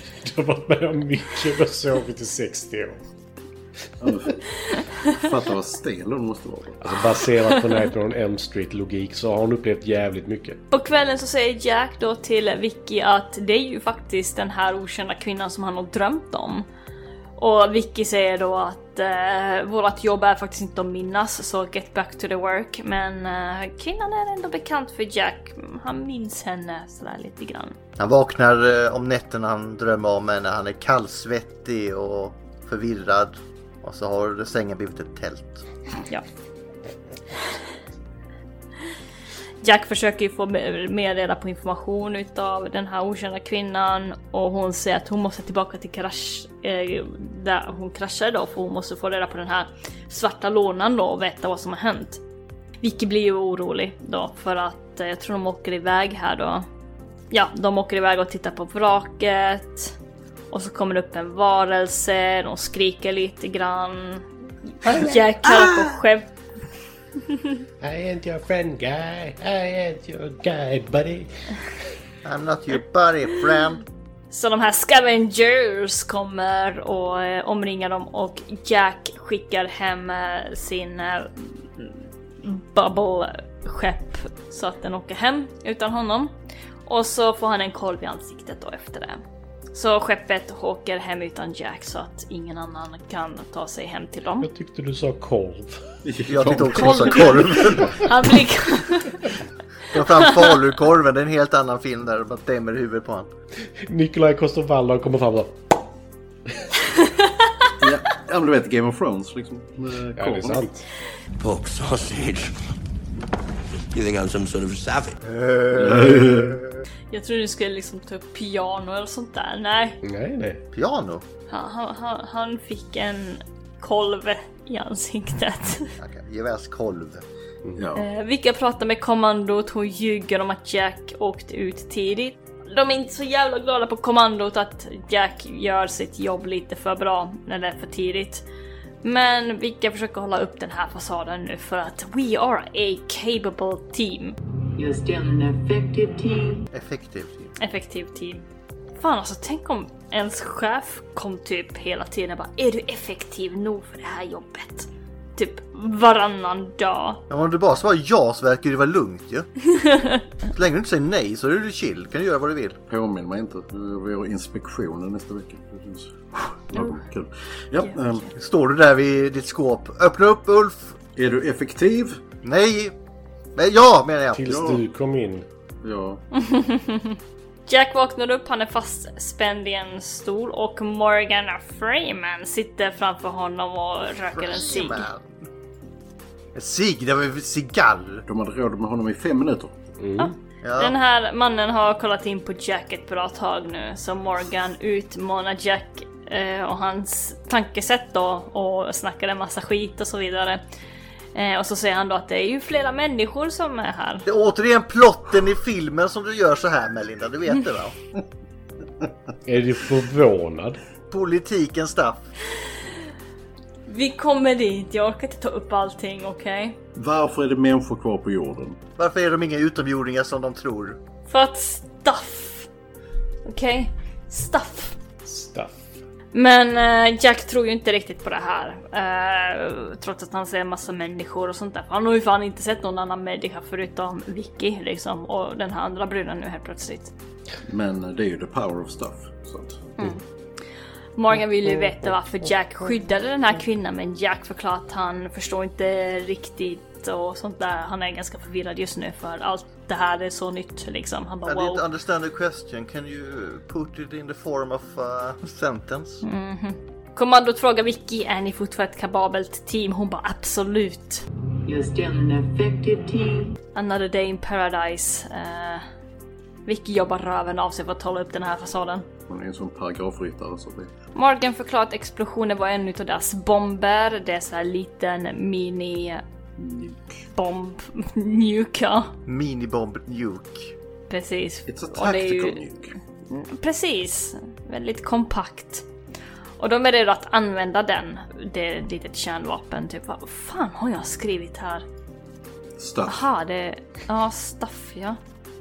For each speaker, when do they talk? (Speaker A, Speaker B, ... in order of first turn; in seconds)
Speaker A: 0.2-3.0, 6.8-10.6, 67.8-71.3, 94.4-95.8, 103.8-105.6, 110.2-110.8, 120.0-120.6, 174.3-175.5, 190.0-190.3, 209.5-210.8, 225.2-226.0
Speaker B: 4.0-4.4, 5.1-7.0, 96.1-97.8, 107.8-110.7, 115.7-116.6, 127.8-128.1, 162.9-168.3, 171.2-172.2, 174.5-174.8, 175.8-176.2, 188.3-189.8, 217.0-218.8, 237.7-239.9, 269.3-270.9, 276.6-277.2, 281.7-282.9, 292.8-293.3
Speaker C: 10.7-16.7, 17.4-27.8, 39.6-52.2, 52.8-56.7, 57.3-60.0, 60.5-64.3, 64.8-66.3, 74.3-86.3, 86.9-89.2, 89.7-94.5, 96.8-99.3, 100.0-100.5, 107.0-107.2, 117.1-120.0, 121.5-125.9, 128.0-138.4, 139.0-144.4, 147.6-148.4, 149.0-157.2, 159.8-160.2, 167.8-168.3, 176.3-185.1, 190.2-200.6, 201.3-204.2, 213.9-216.8, 221.3-222.7, 223.5-225.0, 226.3-237.1, 241.2-251.8, 256.2-261.2, 263.8-265.9, 266.7-269.1, 271.1-276.2, 277.3-279.1, 281.1-282.6, 283.3-285.9, 286.6-291.8, 293.1-295.2
Speaker D: 28.0-35.6, 72.2-73.8, 96.3-98.0, 99.9-103.3, 115.4-116.1, 120.7-121.2, 126.0-127.2, 146.7-147.5, 157.3-159.5, 160.5-162.8, 168.4-171.0, 172.4-172.9, 173.6-174.6, 184.3-185.4, 186.6-188.2, 190.6-191.0, 204.3-207.9, 211.1-212.3, 219.0-221.0, 251.5-256.2, 279.3-280.7
Speaker E: 111.4-112.4, 114.0-115.1
Speaker F: 144.8-146.7, 261.7-263.6